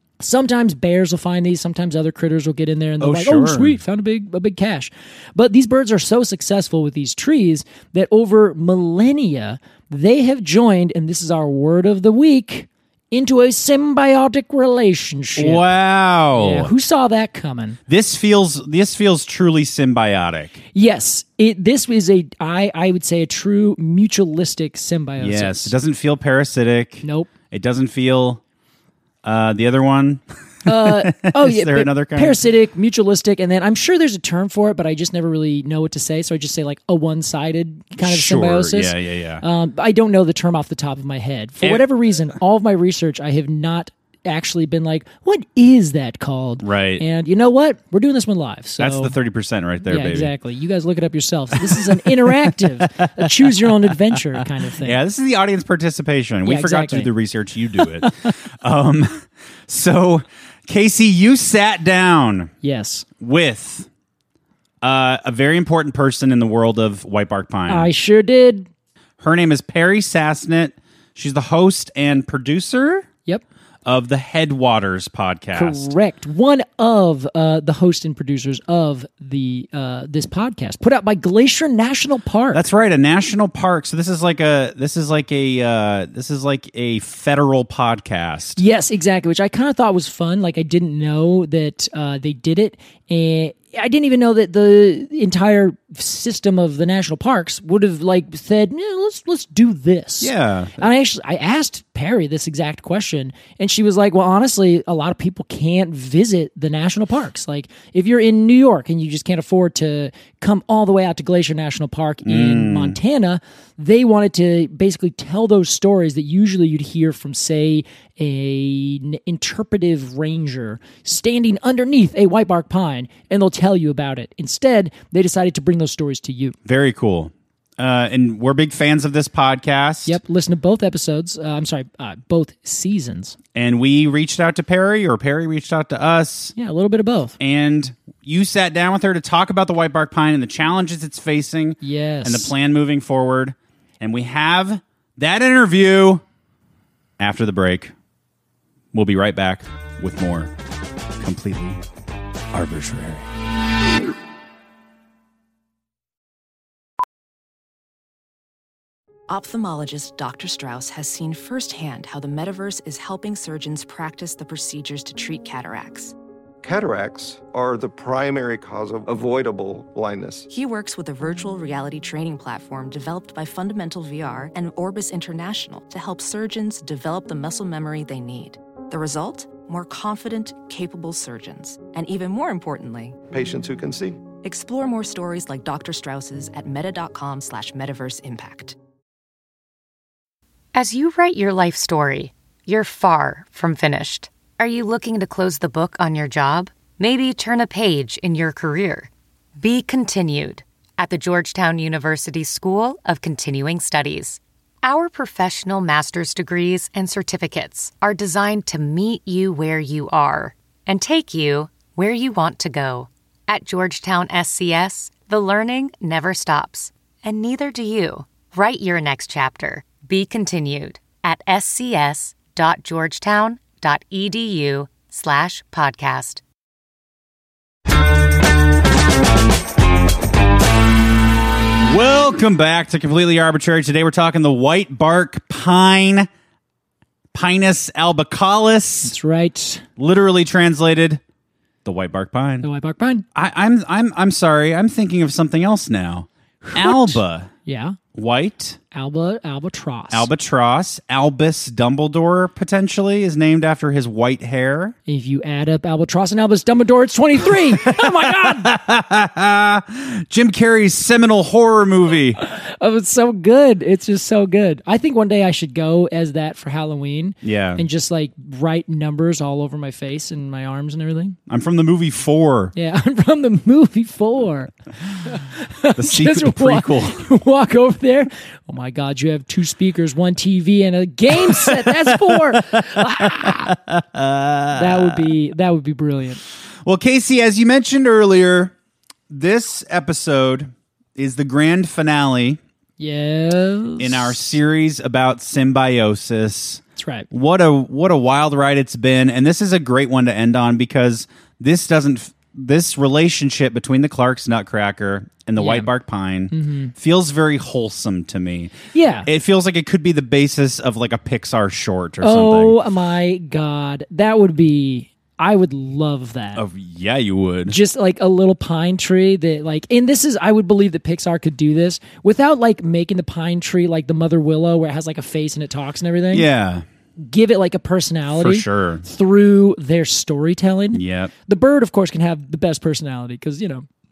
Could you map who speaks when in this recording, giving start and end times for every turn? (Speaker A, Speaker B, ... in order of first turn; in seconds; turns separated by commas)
Speaker A: 0.2-15.7, Speaker B: 3.0-3.8, Speaker B: 15.4-16.7, Speaker A: 16.4-17.8, Speaker B: 17.9-20.6, Speaker A: 20.7-25.7, Speaker B: 25.2-28.4, Speaker A: 27.0-27.3, Speaker B: 29.2-32.4, Speaker A: 30.6-49.1, Speaker B: 38.0-39.4, Speaker B: 46.6-47.0, Speaker B: 48.8-50.3, Speaker A: 49.9-55.0, Speaker B: 51.5-62.5, Speaker A: 56.4-57.1, Speaker A: 62.6-63.1, Speaker B: 63.2-63.9, Speaker B: 64.8-67.9, Speaker A: 67.7-68.7, Speaker B: 69.2-73.1, Speaker B: 73.8-75.9, Speaker A: 75.5-82.6, Speaker B: 82.5-88.6, Speaker A: 88.6-126.6, Speaker B: 100.2-100.9, Speaker B: 112.2-113.0, Speaker B: 126.7-130.2, Speaker A: 130.1-133.4, Speaker B: 133.6-136.5, Speaker A: 136.6-137.4, Speaker B: 137.4-146.2, Speaker A: 141.8-142.5, Speaker B: 147.2-147.9, Speaker B: 148.9-150.5, Speaker B: 151.2-151.8, Speaker B: 152.5-153.3, Speaker C: 159.3-166.2, Speaker D: 166.6-170.5, Speaker C: 170.5-183.2, Speaker D: 183.3-184.2, Speaker C: 184.3-188.8, Speaker E: 190.7-226.4, Speaker B: 231.8-236.3, Speaker B: 237.3-239.2, Speaker A: 239.0-239.8, Speaker B: 240.0-241.2, Speaker B: 241.8-242.7, Speaker A: 242.6-243.3, Speaker B: 243.3-247.5, Speaker A: 246.6-248.0, Speaker B: 248.1-248.8, Speaker A: 248.9-250.3, Speaker B: 250.1-255.0, Speaker A: 255.1-258.7, Speaker B: 257.4-262.4, Speaker A: 262.4-271.4, Speaker B: 267.4-267.9, Speaker B: 271.5-272.7, Speaker A: 272.8-283.8, Speaker B: 275.9-277.2, Speaker B: 281.3-285.2, Speaker A: 284.7-286.4, Speaker B: 286.8-288.8, Speaker B: 289.3-292.6, Speaker A: 293.0-294.4, Speaker B: 294.0-312.8, Speaker A: 297.0-297.3, Speaker A: 305.6-305.9, Speaker A: 306.5-306.9, Speaker A: 308.9-309.3, Speaker A: 312.2-316.6, Speaker B: 316.6-317.8, Speaker A: 317.7-326.5, Speaker B: 326.3-326.9, Speaker A: 327.2-333.9, Speaker B: 328.3-329.1, Speaker B: 330.9-331.3